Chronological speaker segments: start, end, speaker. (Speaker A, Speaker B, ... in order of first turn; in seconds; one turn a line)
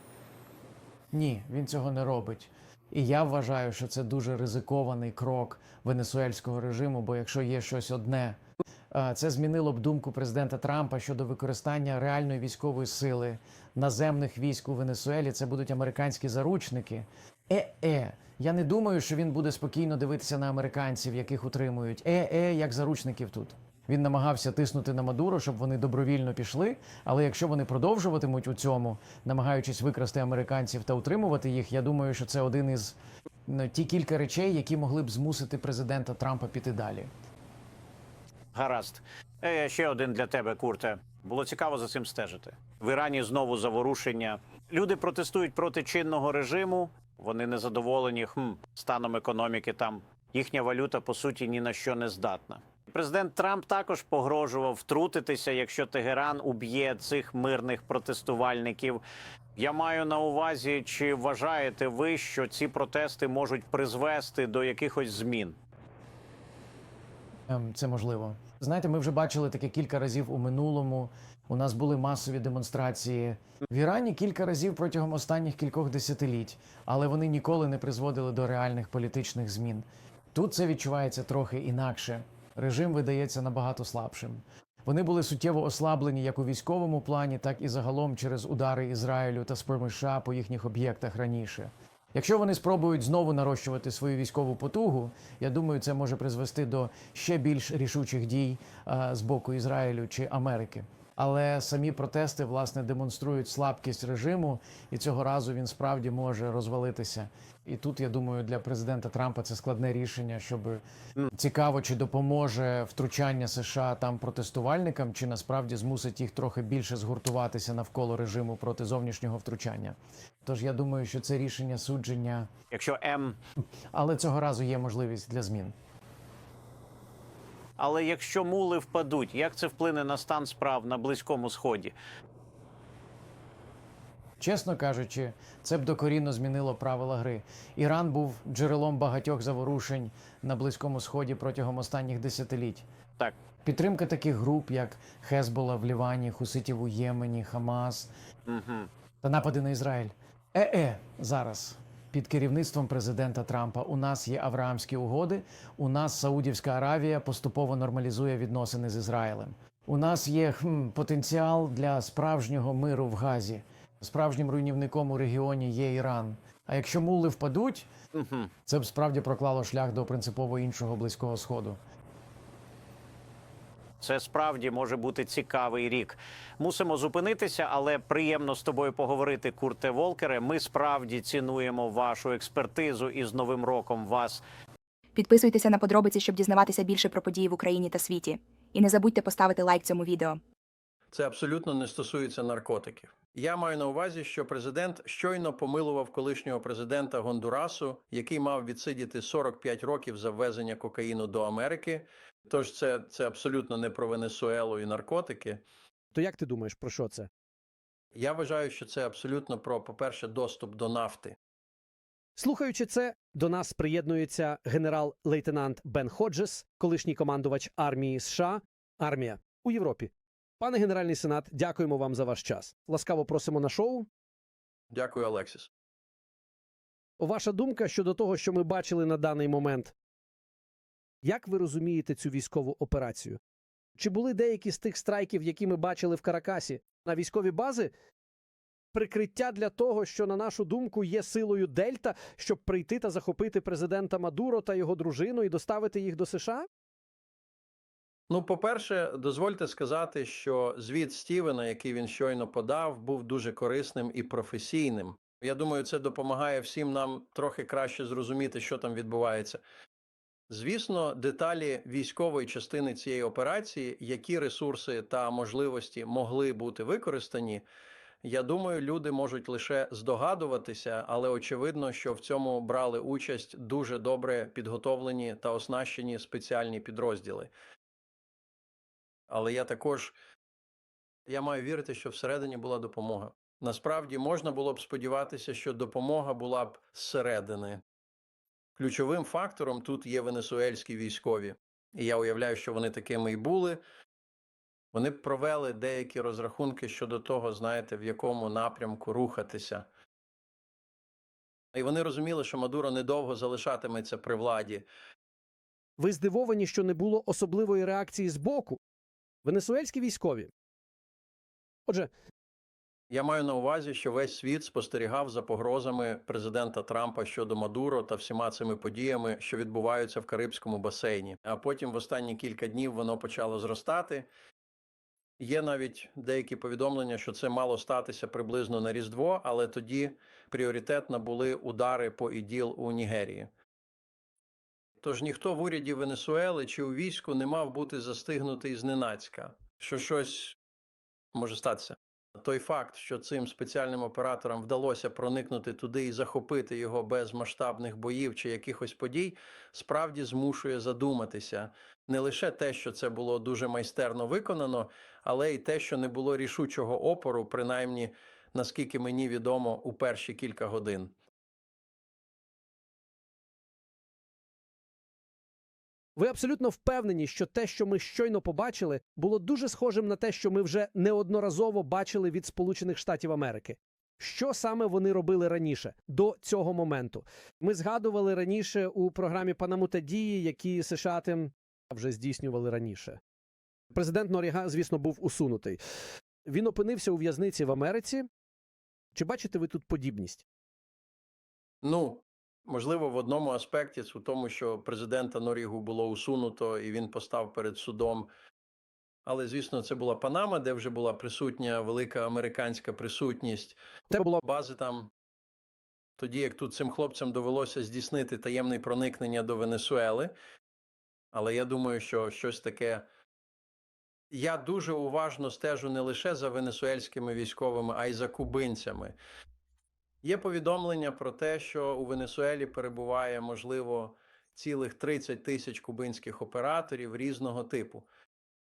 Speaker A: 1.1-8.4
Speaker A: 8.9-37.1
Speaker B: 38.5-59.0
Speaker B: 59.5-65.6
Speaker A: 67.5-122.5
Speaker B: 122.7-123.4
Speaker A: 123.9-125.7
Speaker B: 127.8-131.9
Speaker A: 134.4-142.8
Speaker A: 143.6-148.1
Speaker B: 148.5-148.9
Speaker A: 149.2-167.9
Speaker B: 168.1-168.5
Speaker A: 168.7-171.8
Speaker B: 174.0-184.4
Speaker C: 185.2-190.4
Speaker D: 191.1-205.6
Speaker E: 206.1-207.3
Speaker D: 208.1-211.4
Speaker E: 212.3-224.1
Speaker D: 224.9-225.7
Speaker E: 227.2-229.9
Speaker E: 231.2-233.4
Speaker E: 234.0-237.9
Speaker E: 238.9-246.7
Speaker D: 248.3-259.6
Speaker D: 260.5-267.6
Speaker D: 268.2-277.5
Speaker D: 279.3-280.1
Speaker D: 281.3-287.8
Speaker D: 288.8-293.8
Speaker D: 294.9-299.9
Speaker D: 301.7-304.9
Speaker E: 306.0-308.8
Speaker E: 309.4-310.5
Speaker D: 313.1-324.3
Speaker D: 325.4-333.5
Speaker D: 335.0-340.6
Speaker D: 341.3-361.1
Speaker E: 366.1-383.2
Speaker E: 383.9-385.8
Speaker E: 386.4-388.3
Speaker E: 389.1-390.4
Speaker D: 391.8-398.3
Speaker D: 399.2-405.1
Speaker E: 404.1-404.4
Speaker D: 406.2-410.3
Speaker D: 411.3-413.0
Speaker D: 414.3-419.2
Speaker D: 420.2-428.1